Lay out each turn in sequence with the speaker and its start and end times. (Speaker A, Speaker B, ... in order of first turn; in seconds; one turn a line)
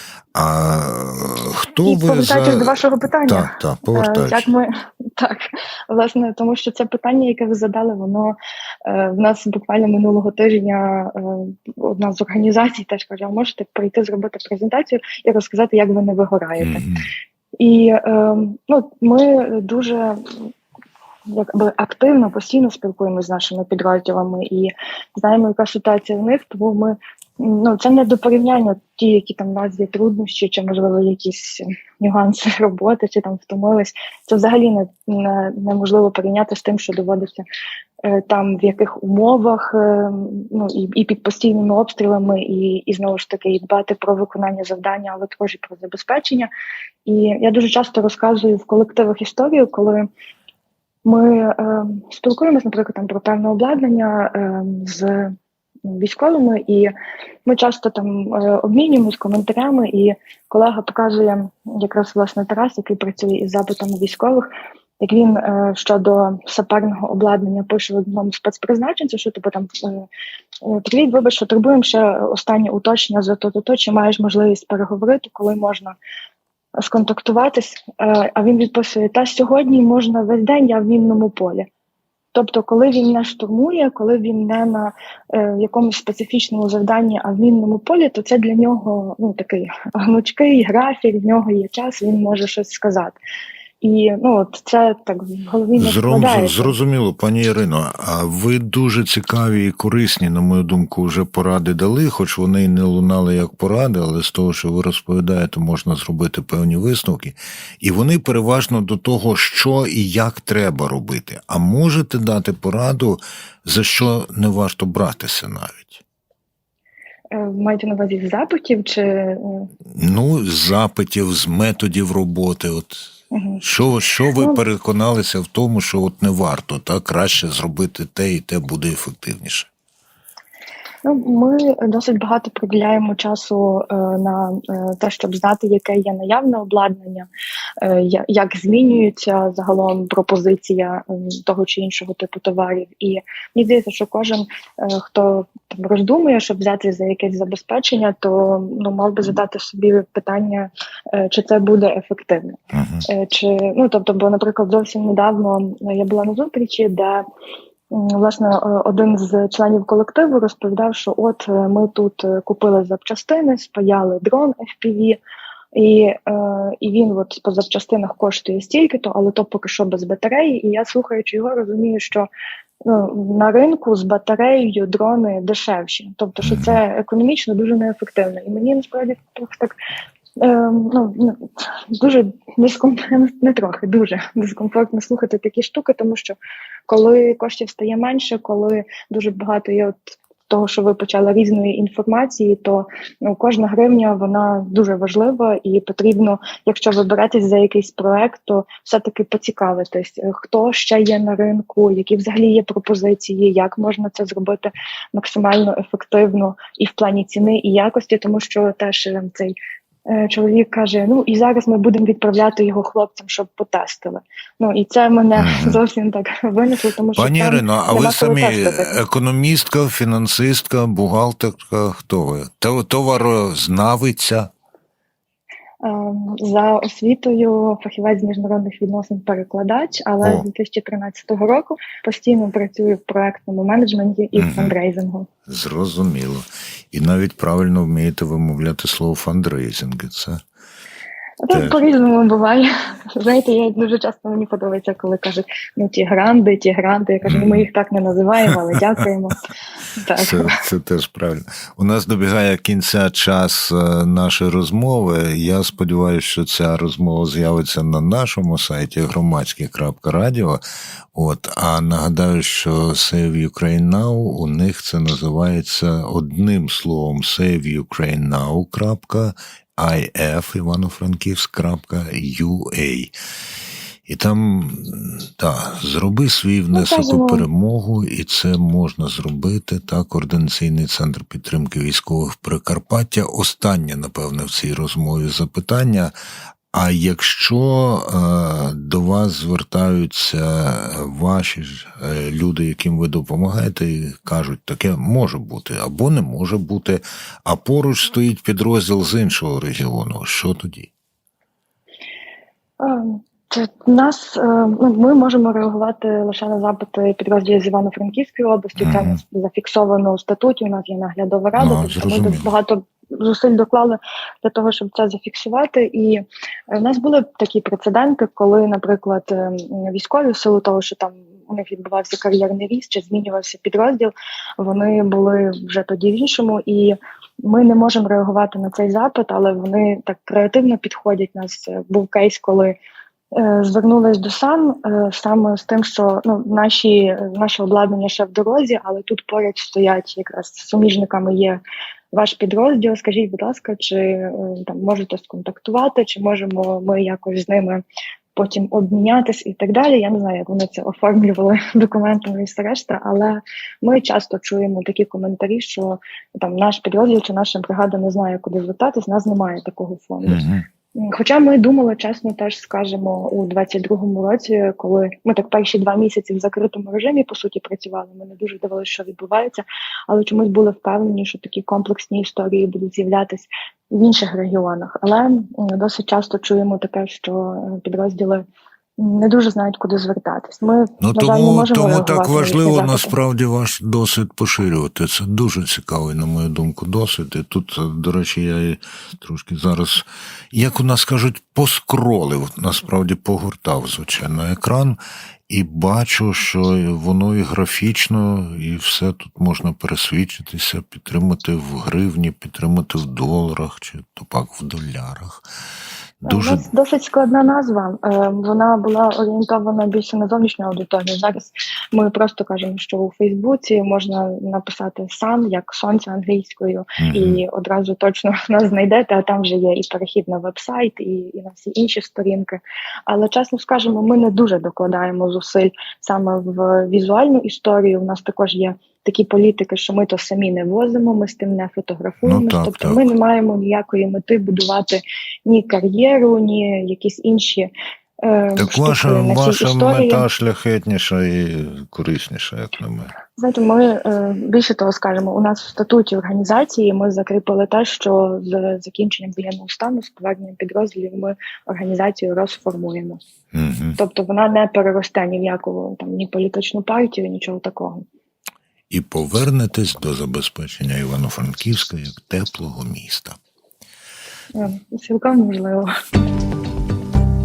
Speaker A: 0.3-4.5
Speaker B: 1.8-16.8
Speaker A: 16.6-17.1
Speaker B: 17.6-20.5
Speaker B: 21.3-37.5
Speaker B: 38.0-46.5
Speaker B: 47.0-50.1
Speaker B: 51.0-55.3
Speaker B: 55.9-56.9
Speaker B: 57.5-64.5
Speaker B: 65.0-70.1
Speaker B: 70.6-76.0
Speaker B: 76.8-81.7
Speaker B: 82.3-93.2
Speaker B: 93.8-96.7
Speaker A: 95.8-116.0
Speaker B: 117.3-119.7
Speaker A: 119.9-129.7
Speaker B: 123.3-123.6
Speaker B: 131.0-137.3
Speaker B: 137.8-157.2
Speaker A: 152.7-153.1
Speaker B: 157.9-165.2
Speaker B: 165.7-172.3
Speaker B: 172.8-179.7
Speaker A: 176.4-176.8
Speaker B: 180.4-186.4
Speaker B: 186.9-218.9
Speaker A: 215.4-215.8
Speaker A: 217.2-224.5
Speaker B: 225.8-235.3
Speaker A: 234.3-234.7
Speaker A: 235.5-240.4
Speaker B: 241.4-249.4
Speaker A: 241.5-241.8
Speaker A: 247.2-247.7
Speaker B: 250.0-250.6
Speaker A: 250.2-260.6
Speaker A: 261.1-273.1
Speaker A: 274.1-286.1
Speaker B: 276.7-277.4
Speaker A: 286.7-300.9
Speaker B: 302.8-332.8
Speaker A: 308.8-309.2
Speaker A: 311.6-312.5
Speaker B: 333.3-341.6
Speaker B: 342.1-347.8
Speaker B: 348.3-360.4
Speaker A: 360.2-360.6
Speaker B: 360.9-378.4
Speaker B: 379.0-383.1
Speaker A: 381.0-395.0
Speaker A: 395.5-405.5
Speaker A: 406.2-406.6
Speaker B: 406.3-440.2
Speaker A: 417.0-417.4
Speaker A: 432.2-433.0
Speaker A: 438.6-443.1
Speaker B: 443.4-453.2
Speaker A: 453.5-454.0
Speaker B: 454.0-458.0
Speaker A: 458.9-463.4
Speaker B: 464.5-465.9